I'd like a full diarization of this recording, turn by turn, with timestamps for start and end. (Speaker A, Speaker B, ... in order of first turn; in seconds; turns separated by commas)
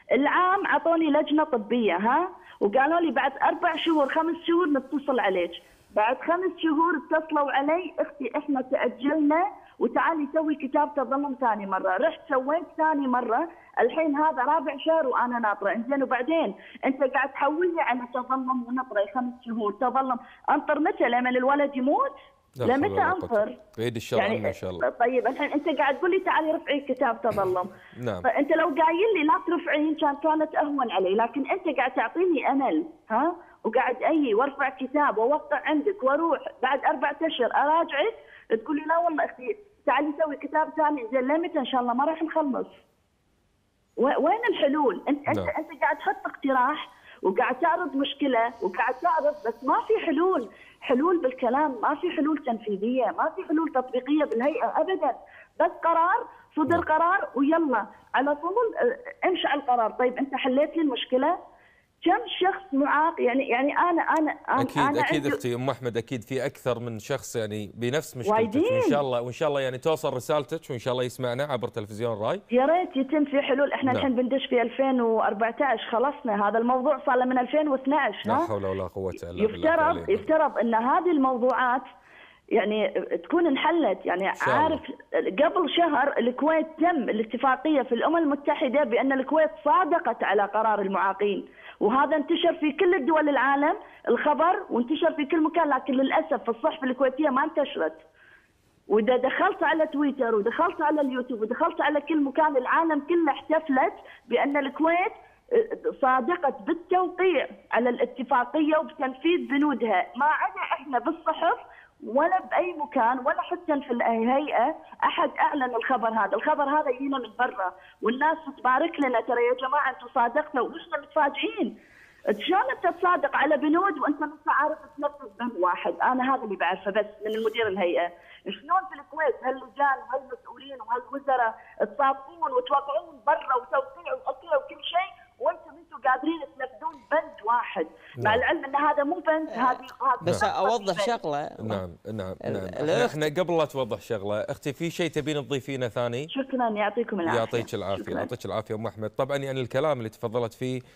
Speaker A: 0.1-23.6, Speaker B: 22.6-24.9, Speaker A: 24.1-27.7, Speaker B: 27.9-28.3, Speaker A: 28.2-42.8, Speaker A: 44.0-61.4, Speaker A: 62.0-65.4, Speaker B: 64.6-72.4, Speaker A: 68.3-69.0, Speaker A: 72.5-78.5, Speaker B: 78.2-80.3, Speaker A: 79.4-81.9, Speaker A: 82.5-98.0, Speaker B: 84.4-84.8, Speaker A: 98.9-121.8, Speaker A: 122.3-141.2, Speaker C: 139.5-141.8, Speaker B: 141.6-146.3, Speaker C: 142.4-143.3, Speaker A: 146.3-148.3, Speaker B: 147.2-150.8